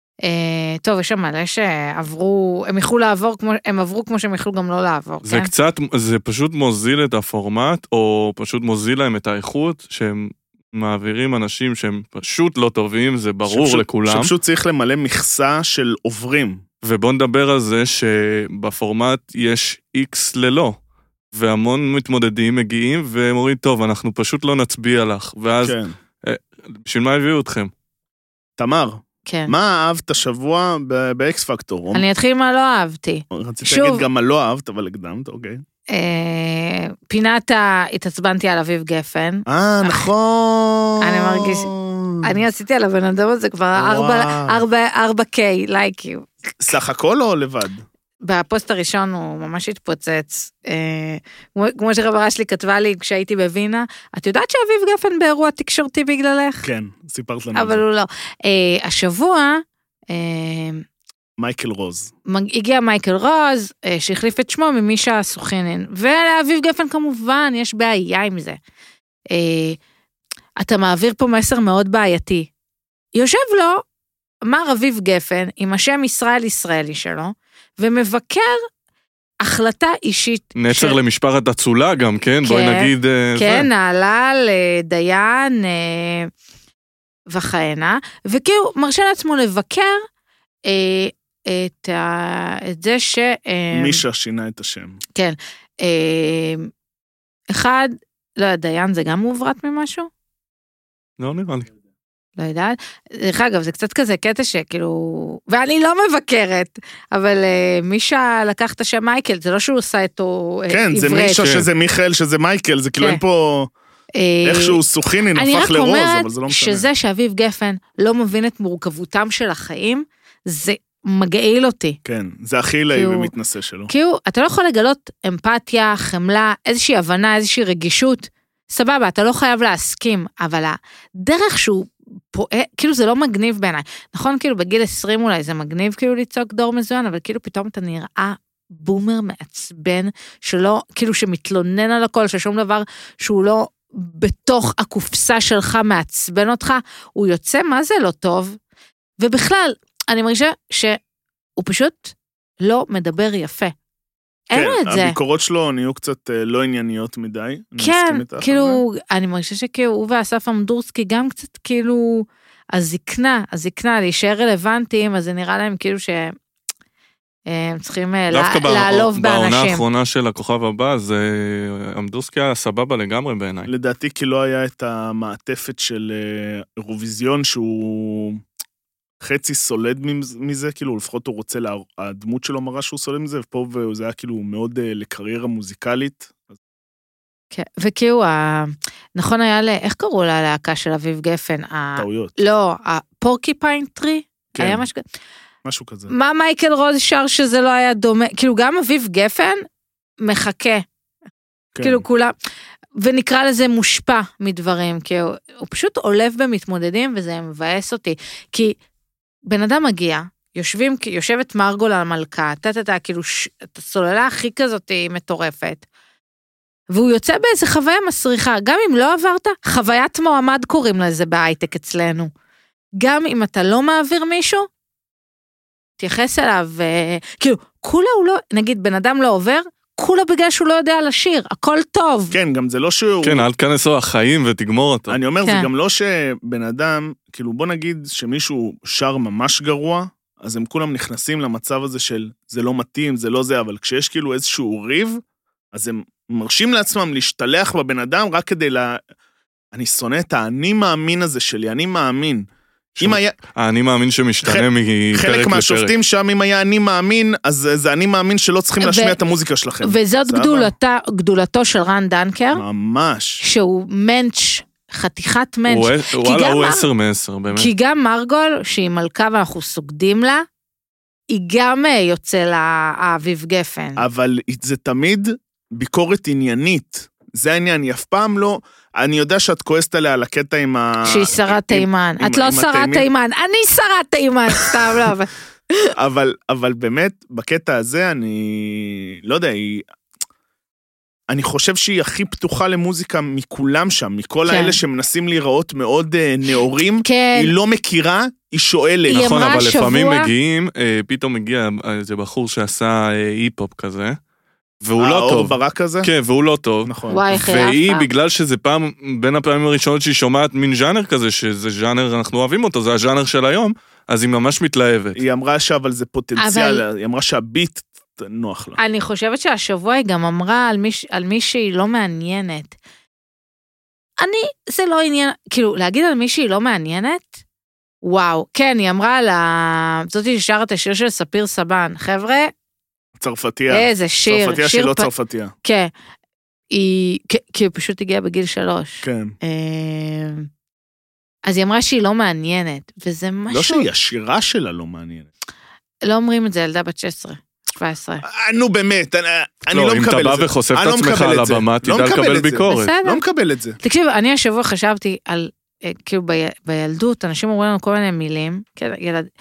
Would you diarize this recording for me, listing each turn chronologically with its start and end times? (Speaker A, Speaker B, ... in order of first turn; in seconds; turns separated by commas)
Speaker A: 0.2-5.5, Speaker B: 5.2-14.3, Speaker C: 13.5-16.6, Speaker B: 16.8-20.8, Speaker B: 21.3-27.7, Speaker C: 25.6-25.9, Speaker C: 28.6-32.0, Speaker A: 29.3-29.6, Speaker A: 31.9-34.1, Speaker C: 33.3-35.6, Speaker A: 35.9-40.1, Speaker C: 39.5-42.3, Speaker A: 41.0-41.7, Speaker A: 42.2-46.3, Speaker C: 43.8-44.6, Speaker C: 46.6-47.8, Speaker A: 48.2-56.7, Speaker C: 56.6-57.8, Speaker A: 57.5-60.9, Speaker C: 61.4-62.1, Speaker A: 62.3-68.6, Speaker A: 69.3-69.8, Speaker A: 70.6-72.5, Speaker A: 73.1-73.8, Speaker A: 74.5-78.6, Speaker A: 79.4-81.0, Speaker B: 80.6-83.7, Speaker A: 82.4-86.3, Speaker A: 87.3-90.0, Speaker A: 90.7-94.0, Speaker C: 93.7-95.0, Speaker A: 95.2-96.7, Speaker A: 97.5-100.1, Speaker B: 101.2-101.7, Speaker A: 102.4-111.5, Speaker C: 110.7-113.7, Speaker B: 111.4-111.7, Speaker A: 114.2-114.8, Speaker C: 114.4-116.9, Speaker A: 115.3-122.0, Speaker C: 122.0-123.9, Speaker A: 122.9-123.3, Speaker A: 123.9-148.6, Speaker A: 149.2-151.0, Speaker A: 151.6-153.7, Speaker A: 154.5-155.2, Speaker C: 154.5-158.8, Speaker A: 157.8-166.3, Speaker A: 167.5-169.8, Speaker B: 168.3-173.7, Speaker C: 173.7-178.4, Speaker C: 179.2-186.4, Speaker A: 187.5-195.0, Speaker C: 192.0-192.4, Speaker C: 194.6-194.8, Speaker C: 195.7-196.1, Speaker A: 196.1-199.6, Speaker A: 200.2-200.8, Speaker C: 201.7-202.0, Speaker A: 201.8-202.3, Speaker A: 203.0-208.8, Speaker A: 209.5-215.8, Speaker A: 216.9-222.3, Speaker A: 223.0-224.7, Speaker A: 226.0-232.3, Speaker C: 232.3-233.5, Speaker B: 233.2-235.2, Speaker C: 235.1-245.2, Speaker C: 245.7-249.0, Speaker C: 249.7-252.5, Speaker B: 253.0-255.9, Speaker C: 253.0-253.4, Speaker C: 254.4-260.7, Speaker A: 258.8-259.2, Speaker A: 259.8-262.6, Speaker C: 262.5-263.4, Speaker A: 263.4-266.9, Speaker B: 265.7-267.7, Speaker A: 267.5-270.4, Speaker A: 271.3-274.0, Speaker C: 274.0-283.1, Speaker A: 281.1-285.9, Speaker C: 286.0-289.9, Speaker C: 291.3-299.3, Speaker A: 294.5-294.8, Speaker A: 297.0-297.5, Speaker A: 299.1-300.3, Speaker B: 299.1-304.2, Speaker B: 304.8-315.2, Speaker C: 305.0-306.1, Speaker C: 306.9-307.2, Speaker A: 307.1-308.1, Speaker C: 315.2-318.8, Speaker A: 316.4-316.8, Speaker A: 318.8-322.8, Speaker A: 324.2-327.4, Speaker A: 328.0-332.5, Speaker C: 333.2-335.5, Speaker A: 333.7-335.1, Speaker A: 335.6-335.9, Speaker A: 336.7-340.5, Speaker C: 339.0-339.4, Speaker A: 341.5-343.9, Speaker C: 343.5-345.3, Speaker A: 346.1-348.2, Speaker C: 348.2-353.8, Speaker B: 349.7-352.9, Speaker A: 352.7-353.2, Speaker A: 353.8-359.3